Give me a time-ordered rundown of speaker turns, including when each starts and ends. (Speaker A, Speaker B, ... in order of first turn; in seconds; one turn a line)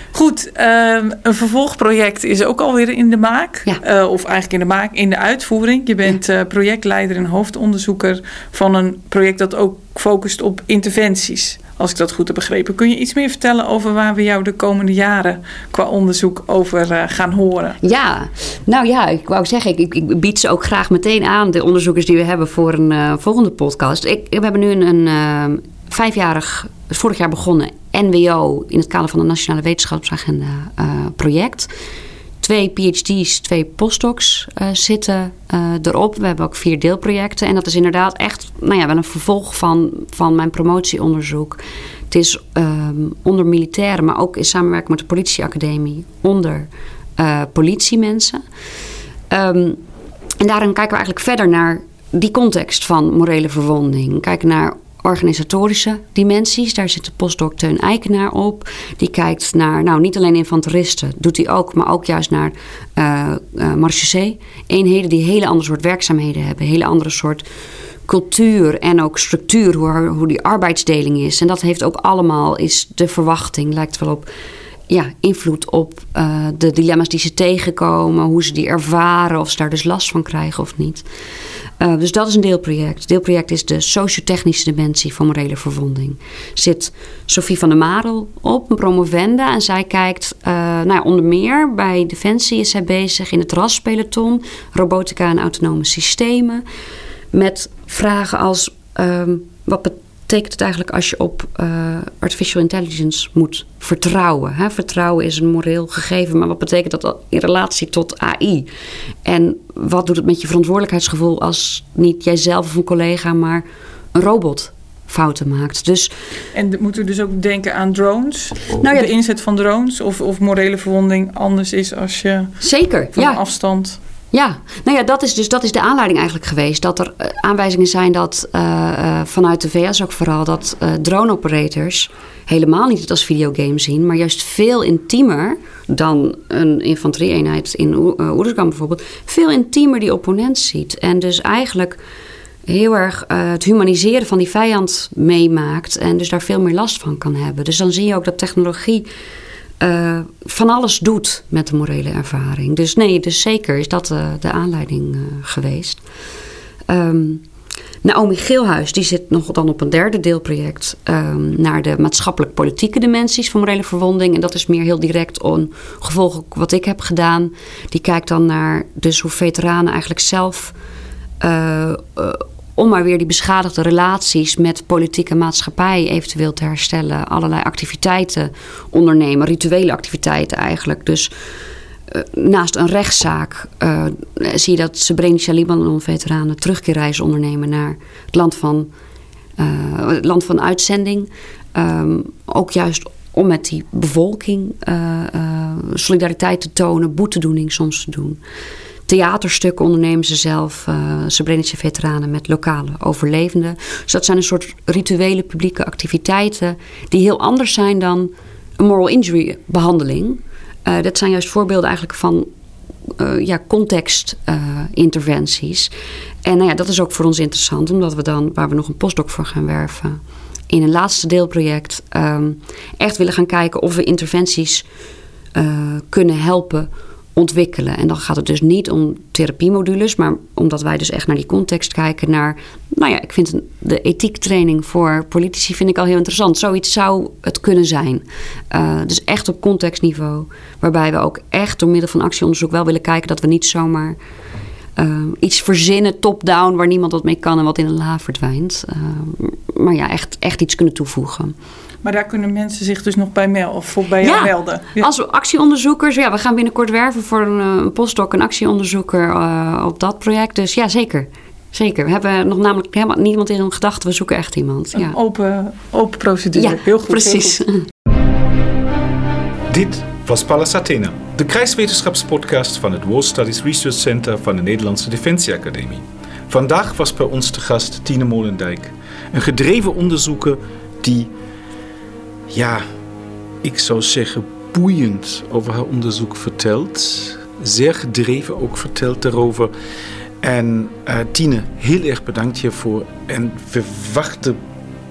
Speaker A: 0.1-17.8
Speaker B: 17.8-31.7
Speaker B: 32.4-48.4
Speaker B: 49.3-49.8
Speaker B: 50.4-67.5
Speaker B: 68.1-74.3
Speaker B: 74.9-81.0
Speaker B: 81.8-96.6
Speaker B: 97.3-108.7
Speaker B: 109.2-116.1
Speaker A: 116.5-122.6
Speaker B: 118.8-119.1
Speaker B: 122.6-123.4
Speaker A: 123.1-124.0
Speaker B: 124.3-142.0
Speaker B: 142.7-149.1
Speaker B: 149.8-156.0
Speaker B: 156.9-157.4
Speaker B: 158.0-170.7
Speaker B: 171.4-181.3
Speaker B: 182.1-188.9
Speaker B: 189.6-198.4
Speaker B: 199.1-212.5
Speaker B: 213.2-215.9
Speaker B: 216.4-224.8
Speaker B: 225.5-244.2
Speaker B: 244.9-251.5
Speaker A: 252.0-255.1
Speaker B: 254.2-265.2
Speaker A: 264.9-267.6
Speaker B: 266.6-267.8
Speaker C: 269.7-281.3
Speaker C: 282.5-282.8
Speaker C: 283.6-289.7
Speaker C: 290.4-294.6